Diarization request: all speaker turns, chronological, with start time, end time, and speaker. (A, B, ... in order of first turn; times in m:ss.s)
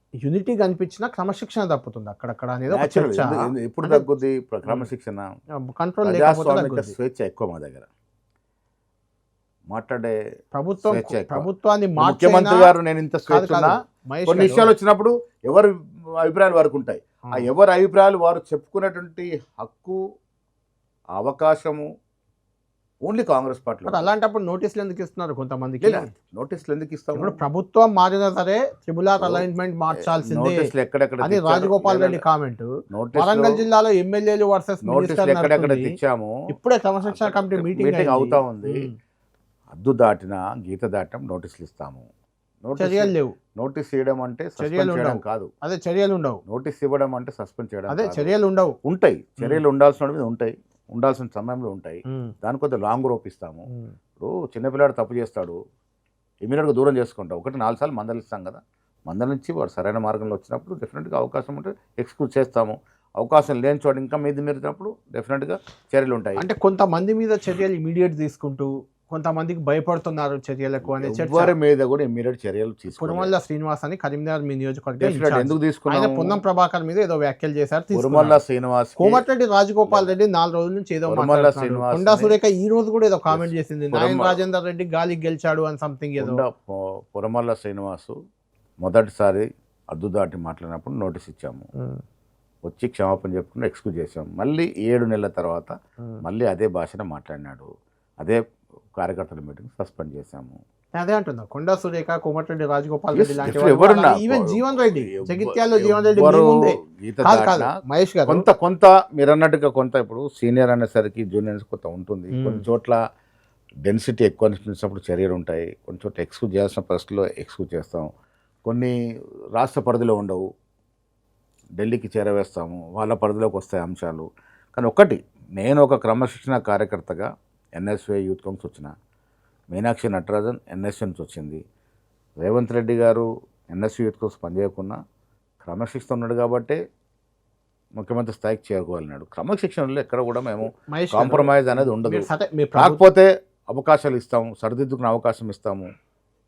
0:00.2-0:04.0 A
0:02.7-0:05.2 B
0:05.6-0:06.9 A
0:06.0-0:07.9 B
0:09.7-0:10.2 B
0:10.5-0:12.7 A
0:10.8-0:20.0 B
0:13.3-0:14.7 A
0:21.2-0:21.9 B
0:23.0-0:24.1 B
0:23.9-0:26.1 A
0:25.8-0:27.4 B
0:27.1-0:30.7 A
0:29.2-0:29.4 B
0:30.1-0:32.2 B
0:31.2-0:36.0 A
0:32.9-0:33.6 B
0:34.8-0:36.4 B
0:36.5-0:38.9 A
0:37.0-0:38.9 B
0:39.7-0:42.0 B
0:42.6-0:45.5 B
0:42.8-0:43.3 A
0:44.6-0:46.4 A
0:46.4-0:48.3 B
0:47.9-0:48.8 A
0:48.8-0:53.7 B
0:52.1-0:52.3 A
0:53.7-0:53.9 A
0:54.2-0:55.6 B
0:56.4-1:06.4 B
1:06.4-1:11.5 A
1:10.8-1:13.3 B
1:12.9-1:18.4 A
1:15.0-1:16.4 B
1:17.9-1:19.2 B
1:19.0-1:26.4 A
1:19.9-1:20.1 B
1:21.1-1:22.4 B
1:23.3-1:24.4 B
1:26.2-1:28.1 B
1:28.8-1:31.7 B
1:31.8-1:32.0 A
1:32.6-1:37.7 B
1:38.9-1:40.6 B
1:41.0-1:48.4 A
1:43.2-1:47.7 B
1:48.3-1:53.0 B
1:52.3-1:52.6 A
1:53.8-1:58.1 B
1:58.6-1:58.9 B
1:59.6-2:00.4 B
2:01.8-2:08.9 B
2:09.7-2:11.6 B
2:12.4-2:15.0 B
2:15.6-2:16.8 B
2:18.0-2:25.9 B
2:20.9-2:23.0 A